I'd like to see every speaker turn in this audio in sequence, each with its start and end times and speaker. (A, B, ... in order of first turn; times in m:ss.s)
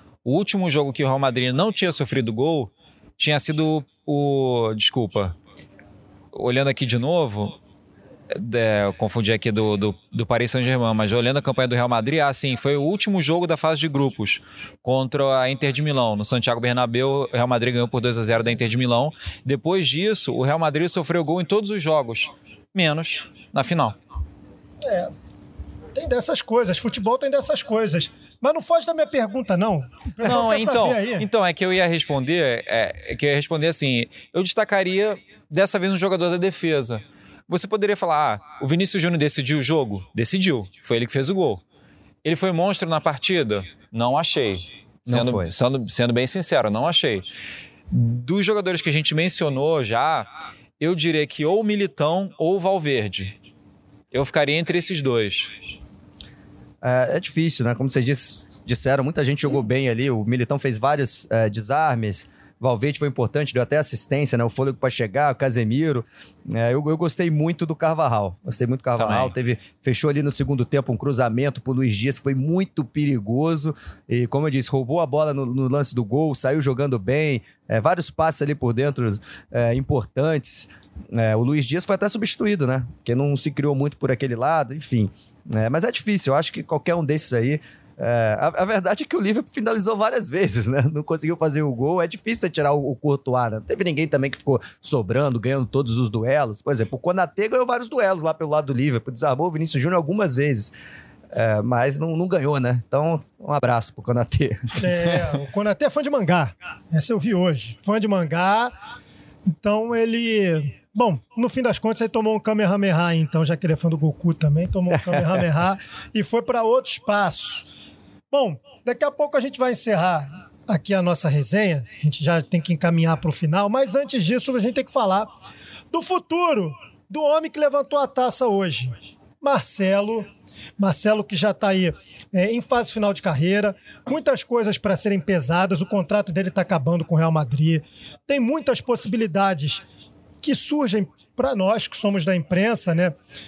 0:00.2-0:05.4 A
0:06.3-0:07.6 A
0:08.3-0:24.0 A
0:24.8-0:25.1 B
0:25.9-0:31.3 B
0:30.2-0:41.6 A
0:42.2-0:47.3 A
0:45.1-0:45.5 C
0:47.9-0:50.3 A
0:50.8-0:53.3 A
0:54.1-0:55.7 A
0:56.8-1:40.7 C
1:09.0-1:09.3 A
1:41.3-1:45.2 C
1:44.8-1:48.7 B
1:49.6-1:57.7 B
1:58.3-2:05.3 B
2:05.9-2:19.8 B
2:20.4-2:23.1 B